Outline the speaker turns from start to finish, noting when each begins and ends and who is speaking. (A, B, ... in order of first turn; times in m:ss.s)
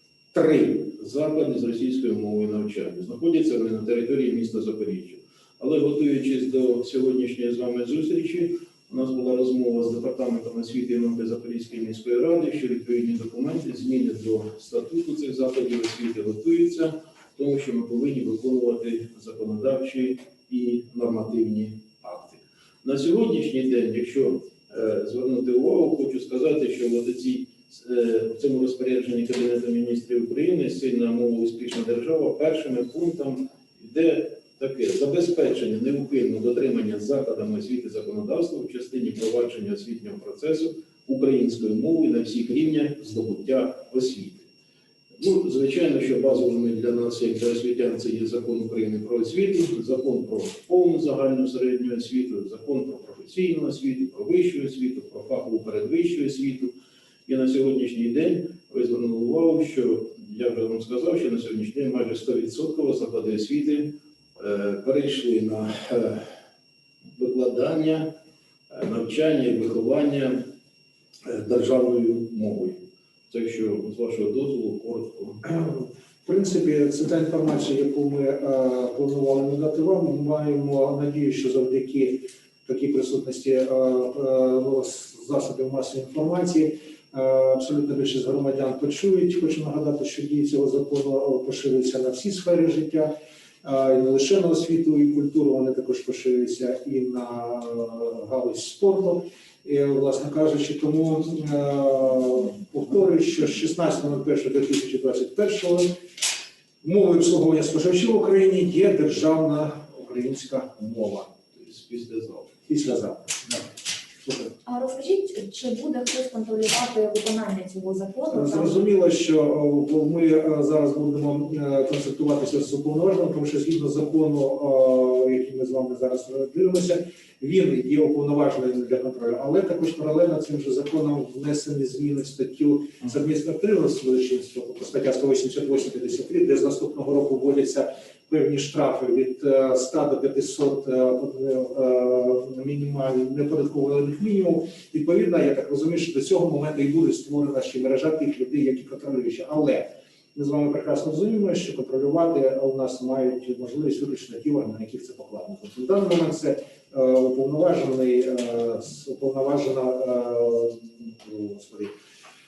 0:00.3-0:00.7 A
0:00.7-0:44.5 B
0:45.2-0:56.7 B
0:57.3-1:06.3 B
1:07.1-1:08.2 B
1:08.7-1:10.5 B
1:11.2-1:15.4 B
1:15.6-1:46.0 A
1:46.8-1:51.3 A
1:51.5-1:52.5 B
1:52.7-1:53.7 A
1:54.2-1:54.5 A
1:54.6-1:58.8 C
1:58.3-2:41.9 A